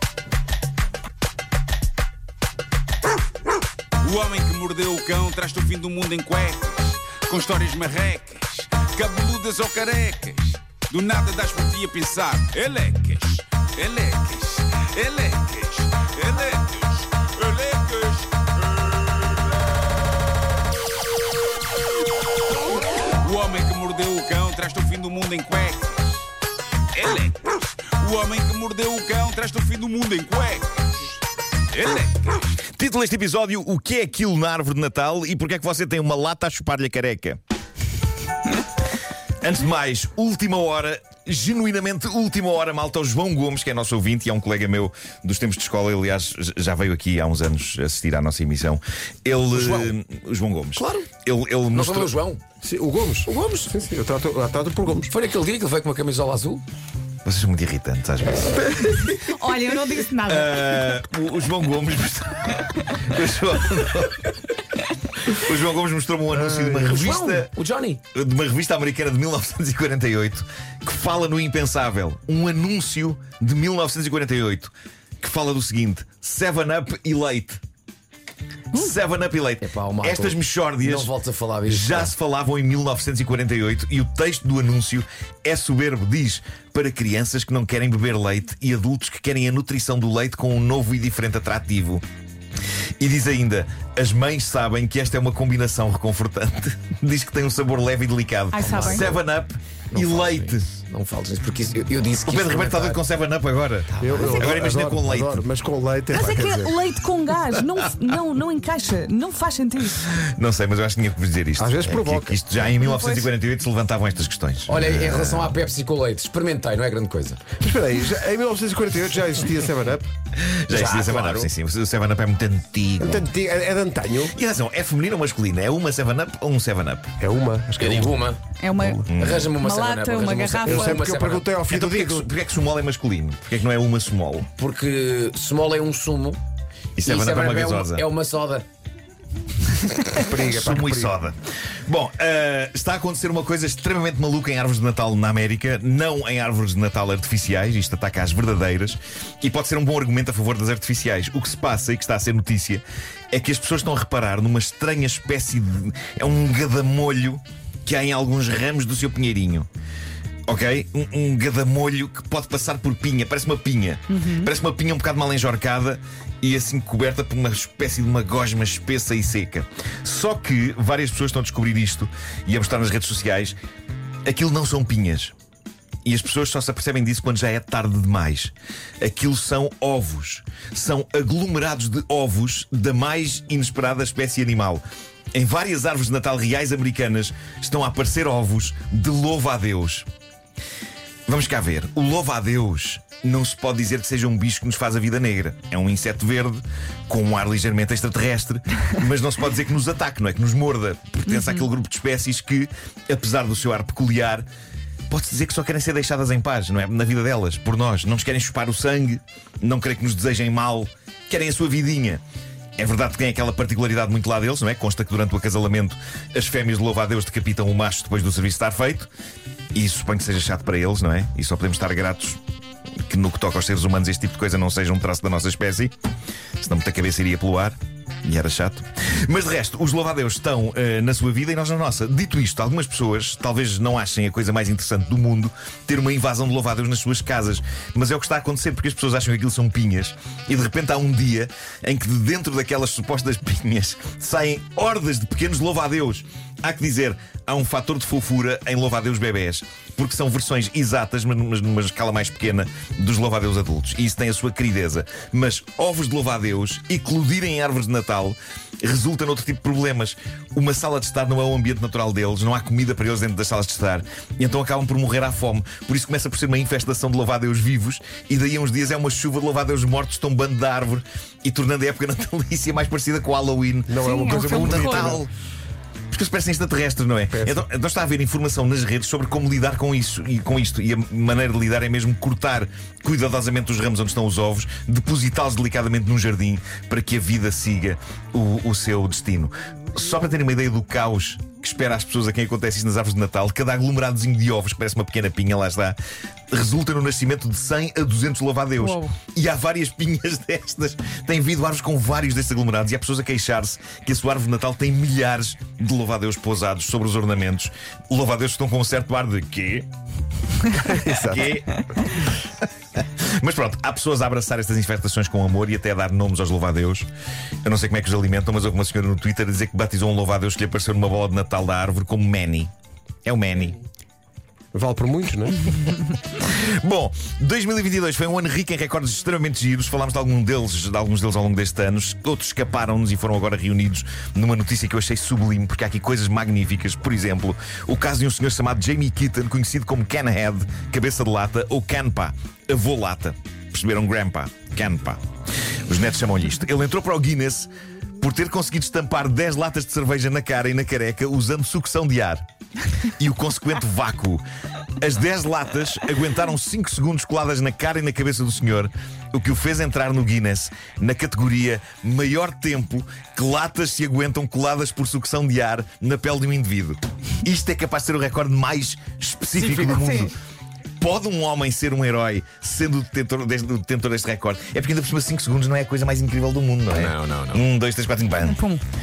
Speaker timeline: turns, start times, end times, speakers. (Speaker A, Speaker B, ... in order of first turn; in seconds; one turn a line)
Speaker A: 4.0-19.4
Speaker A: 23.2-26.3
Speaker A: 26.9-31.1
Speaker A: 31.7-32.5
Speaker B: 32.7-37.4
Speaker B: 39.4-52.1
Speaker C: 49.5-49.9
Speaker C: 50.8-51.1
Speaker C: 51.7-52.4
Speaker D: 52.6-55.1
Speaker C: 53.3-53.7
Speaker C: 55.1-56.6
Speaker B: 57.2-59.1
Speaker E: 59.1-60.9
Speaker B: 60.2-64.3
Speaker B: 65.2-67.5
Speaker C: 66.7-68.0
Speaker B: 68.1-77.6
Speaker B: 78.7-81.1
Speaker C: 79.6-82.1
Speaker B: 81.7-92.0
Speaker B: 93.0-100.7
Speaker E: 98.5-99.1
Speaker C: 98.6-99.2
Speaker C: 99.9-103.0
Speaker B: 102.2-105.4
Speaker C: 104.0-104.5
Speaker D: 104.0-106.8
Speaker E: 106.1-110.0
Speaker B: 110.0-115.5
Speaker D: 111.6-112.4
Speaker E: 112.7-113.3
Speaker C: 114.7-117.4
Speaker D: 117.6-120.1
Speaker B: 120.3-123.2
Speaker C: 120.7-121.5
Speaker D: 123.0-124.3
Speaker B: 124.3-127.1
Speaker D: 127.2-128.2
Speaker C: 127.8-128.4
Speaker E: 128.6-131.0
Speaker D: 128.7-129.0
Speaker B: 129.1-129.5
Speaker C: 129.1-131.5
Speaker D: 130.7-132.3
Speaker B: 131.7-134.5
Speaker C: 134.6-136.4
Speaker B: 136.9-138.1
Speaker C: 137.0-138.7
Speaker B: 139.9-159.7
Speaker D: 140.1-141.1
Speaker B: 160.5-173.6
Speaker E: 164.1-164.5
Speaker B: 174.2-175.3
Speaker B: 176.0-184.8
Speaker B: 185.3-190.1
Speaker B: 191.3-204.4
Speaker E: 201.3-201.6
Speaker B: 205.1-212.2
Speaker B: 212.8-219.1
Speaker B: 219.7-222.4
Speaker B: 223.1-225.9
Speaker B: 226.6-275.3
Speaker D: 273.9-275.2
Speaker E: 274.0-275.2
Speaker B: 276.1-296.0
Speaker D: 277.3-277.6
Speaker B: 296.5-309.9
Speaker E: 298.8-299.1
Speaker D: 310.7-311.5
Speaker B: 311.1-312.2
Speaker B: 313.0-317.1
Speaker B: 317.6-322.7
Speaker B: 323.2-323.8
Speaker D: 324.7-325.7
Speaker B: 325.7-347.7
Speaker B: 348.2-352.4
Speaker B: 353.2-354.4
Speaker B: 355.0-370.3
Speaker C: 369.6-370.0
Speaker E: 369.9-370.3
Speaker B: 371.0-378.7
Speaker C: 376.9-377.6
Speaker E: 378.4-378.8